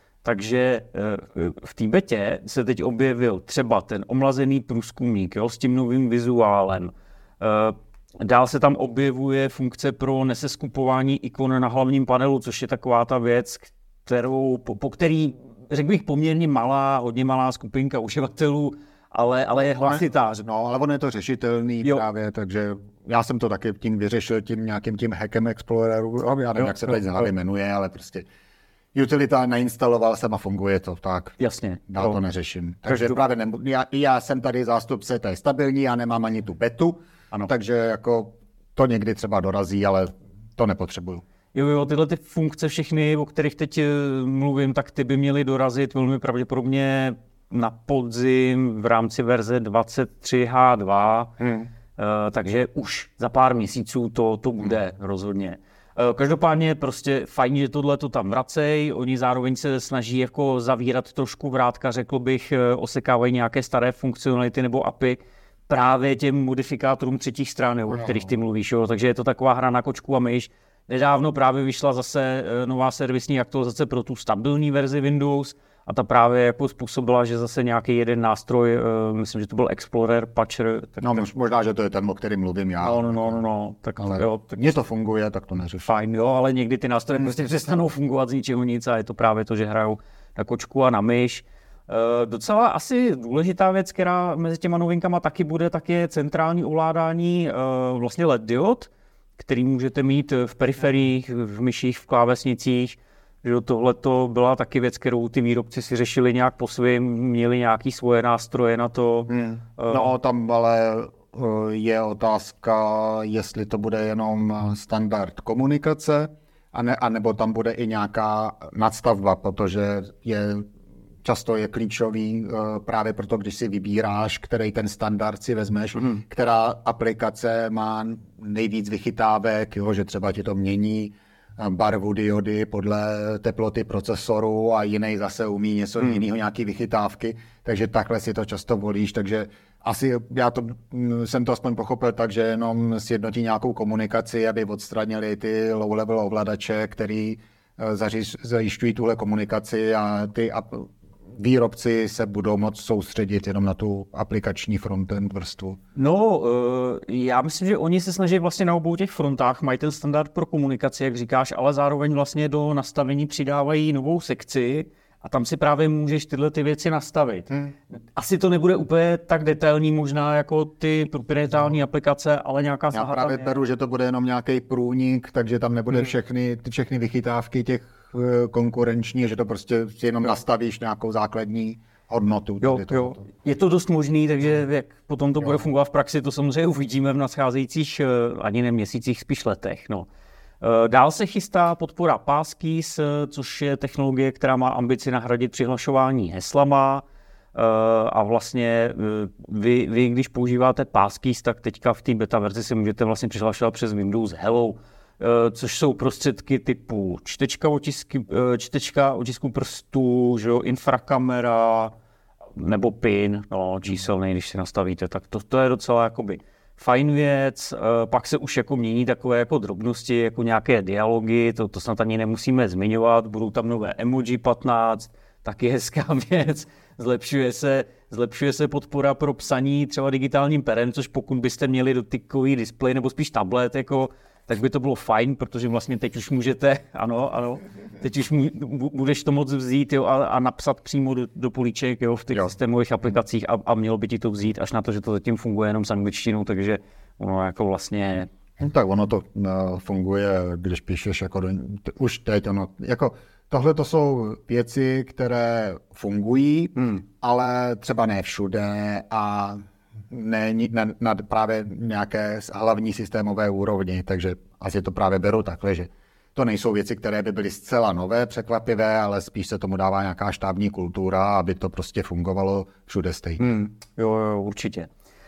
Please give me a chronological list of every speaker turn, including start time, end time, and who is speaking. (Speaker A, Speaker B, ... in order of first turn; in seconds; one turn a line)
Speaker A: 0.2-20.4
Speaker B: 19.8-28.2
Speaker B: 28.9-31.4
Speaker A: 31.4-32.2
Speaker B: 31.9-41.2
Speaker A: 32.9-33.1
Speaker A: 41.5-51.4
Speaker B: 51.4-51.7
Speaker A: 52.0-81.2
Speaker B: 81.0-83.4
Speaker A: 82.8-84.6
Speaker B: 84.0-85.9
Speaker A: 85.8-110.1
Speaker B: 109.3-120.7
Speaker B: 121.2-155.8
Speaker A: 155.9-167.5
Speaker A: 168.1-173.6
Speaker B: 172.9-183.2
Speaker A: 182.6-190.1
Speaker A: 190.6-197.0
Speaker A: 197.5-211.9
Speaker A: 212.6-248.3
Speaker B: 248.6-273.4
Speaker A: 273.4-274.9